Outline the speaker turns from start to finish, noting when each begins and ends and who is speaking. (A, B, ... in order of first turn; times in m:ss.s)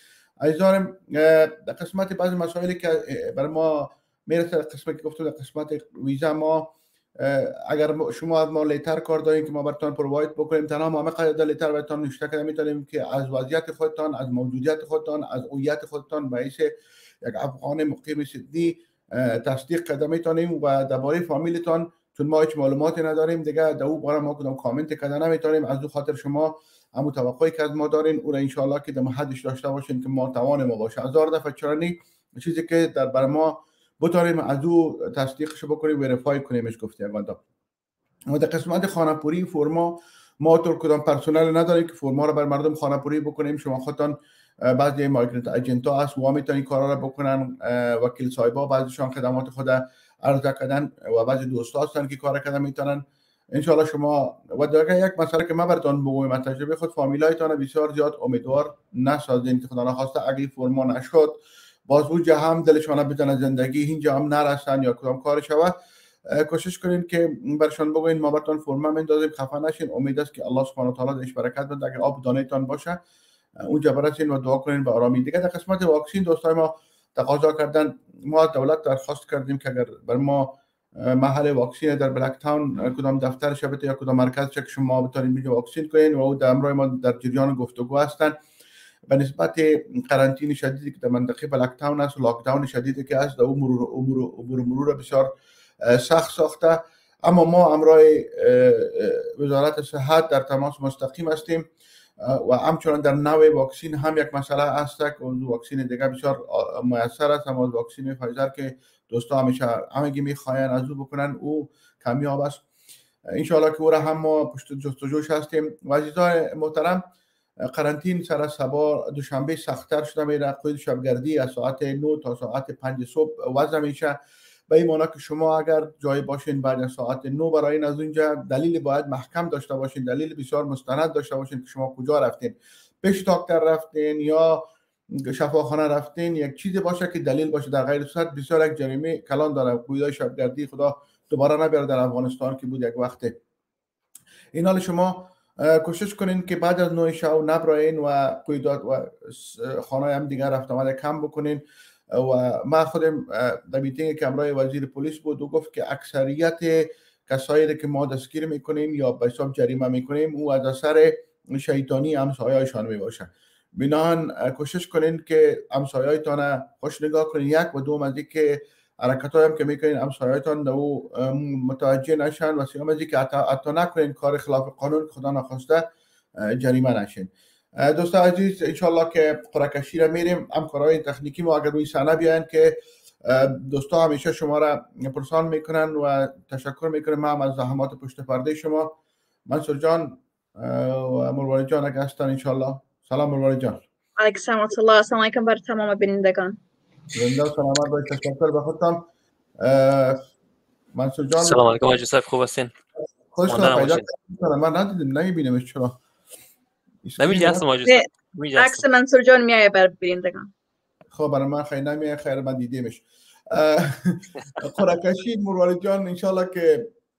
0:00.4-0:16.7 A
0:17.2-0:37.4 A
0:38.3-0:44.2 A
0:44.7-0:53.0 A
0:53.6-1:01.4 A
1:01.9-1:05.7 A
1:06.3-1:13.0 A
1:13.6-1:28.4 A
1:29.1-1:35.3 A
1:35.9-1:41.7 A
1:42.2-1:52.6 A
1:53.3-1:57.0 A
1:57.7-2:04.2 A
2:04.7-2:14.7 A
2:15.3-2:23.4 A
2:24.6-2:55.9 A
2:56.5-3:09.0 A
3:09.5-3:13.8 A
3:14.2-3:16.6 B
3:17.1-3:19.1 A
3:19.6-3:20.2 A
3:21.0-3:21.9 A
3:21.4-3:22.7 C
3:23.3-3:26.0 A
3:23.5-3:24.1 C
3:27.0-3:27.7 A
3:27.2-3:28.8 C
3:27.8-3:30.5 B
3:31.1-3:36.9 A